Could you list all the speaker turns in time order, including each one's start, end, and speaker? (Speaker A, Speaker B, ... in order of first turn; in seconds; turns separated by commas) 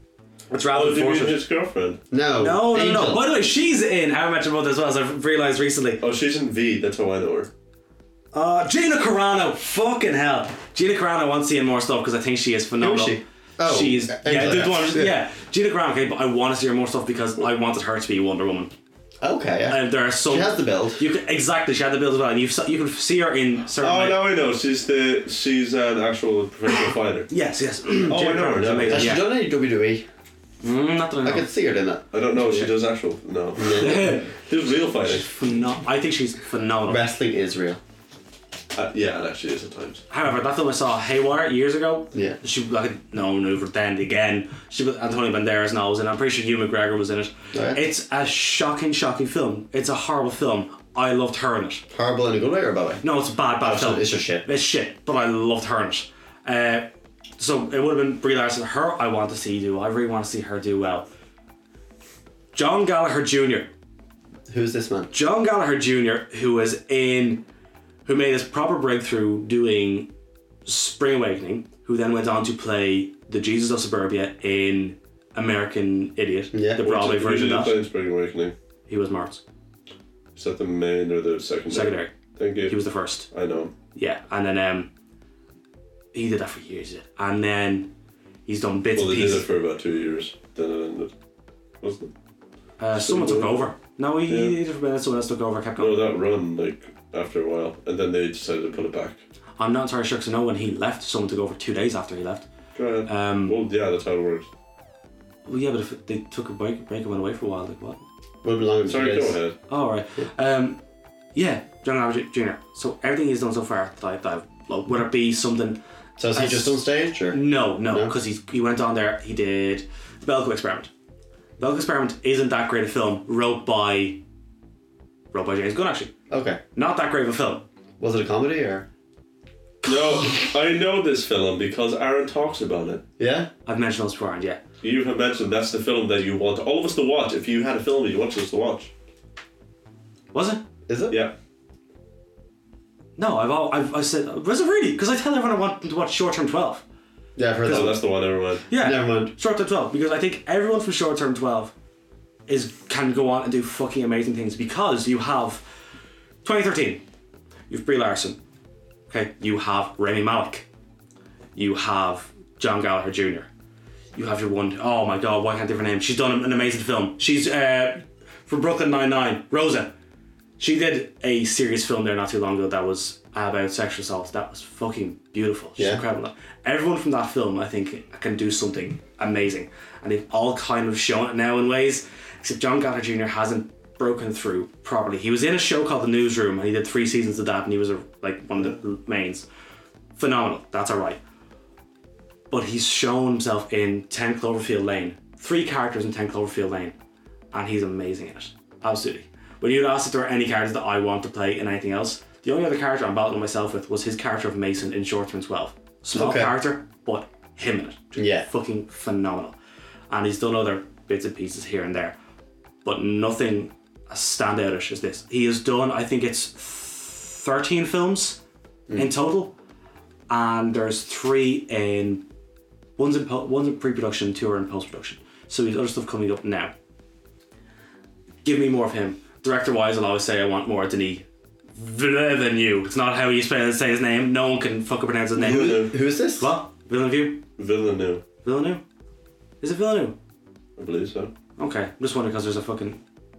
Speaker A: 0.5-1.4, Speaker B: 0.7-2.0, Speaker C: 2.1-3.2, Speaker A: 2.4-6.0, Speaker B: 6.0-7.5, Speaker A: 8.3-18.7, Speaker C: 12.8-15.2, Speaker C: 19.2-21.0, Speaker A: 19.7-24.2, Speaker B: 23.8-27.3, Speaker A: 27.3-29.3, Speaker B: 28.1-29.2, Speaker C: 28.9-30.0, Speaker A: 30.6-31.5, Speaker C: 31.2-32.0, Speaker B: 32.1-35.3, Speaker A: 32.4-32.7, Speaker C: 33.6-34.1, Speaker A: 33.7-34.3, Speaker A: 35.0-37.0, Speaker C: 36.9-37.8, Speaker B: 38.7-40.0, Speaker A: 40.1-51.8, Speaker C: 47.5-47.8, Speaker C: 51.9-53.0, Speaker A: 53.0-61.1, Speaker C: 53.6-54.5, Speaker A: 62.5-63.7, Speaker C: 64.5-65.1, Speaker A: 65.1-67.4, Speaker A: 68.0-70.1, Speaker A: 70.7-77.8, Speaker C: 76.5-76.8, Speaker B: 76.8-78.5, Speaker A: 78.9-79.4, Speaker B: 80.3-83.7, Speaker A: 81.7-82.1, Speaker A: 82.7-83.3, Speaker A: 83.9-84.9, Speaker A: 86.1-87.9, Speaker A: 88.5-89.5, Speaker B: 88.9-91.1, Speaker B: 91.8-92.1, Speaker A: 92.8-96.0, Speaker B: 92.9-93.7, Speaker B: 94.3-94.5, Speaker B: 95.8-99.2, Speaker A: 99.6-102.5, Speaker B: 102.7-104.5, Speaker A: 103.0-103.6, Speaker A: 105.5-108.0, Speaker C: 108.4-109.4, Speaker B: 108.8-109.5, Speaker A: 109.7-110.8, Speaker A: 111.3-115.8, Speaker C: 116.2-118.1, Speaker A: 116.3-120.9, Speaker A: 121.6-124.2, Speaker A: 125.3-126.1, Speaker C: 126.3-126.6, Speaker A: 126.7-127.6, Speaker C: 128.0-128.8, Speaker B: 129.8-133.0, Speaker C: 133.2-133.5, Speaker A: 133.7-134.6, Speaker B: 134.8-138.9, Speaker A: 140.3-140.6, Speaker C: 140.9-141.2, Speaker B: 141.1-141.3, Speaker A: 143.2-146.8, Speaker C: 147.3-148.0, Speaker B: 147.6-148.6, Speaker A: 148.7-151.7, Speaker C: 148.7-149.3, Speaker A: 152.5-155.6, Speaker A: 156.4-157.0, Speaker A: 157.7-158.4, Speaker A: 159.1-160.7, Speaker A: 161.5-163.5, Speaker A: 164.1-169.9, Speaker A: 170.6-189.4, Speaker C: 175.8-176.0, Speaker A: 190.2-191.2, Speaker A: 192.5-196.9, Speaker A: 197.5-209.6, Speaker C: 206.1-206.5, Speaker C: 208.2-208.4, Speaker A: 210.1-212.2, Speaker A: 212.8-218.4, Speaker C: 218.9-219.1, Speaker A: 218.9-219.6, Speaker A: 220.3-222.2, Speaker A: 223.0-226.7, Speaker A: 228.4-237.4, Speaker C: 235.3-236.5, Speaker B: 235.4-235.9, Speaker B: 237.6-238.2, Speaker A: 238.4-238.8, Speaker A: 239.6-240.2, Speaker B: 240.8-241.3, Speaker A: 241.6-243.0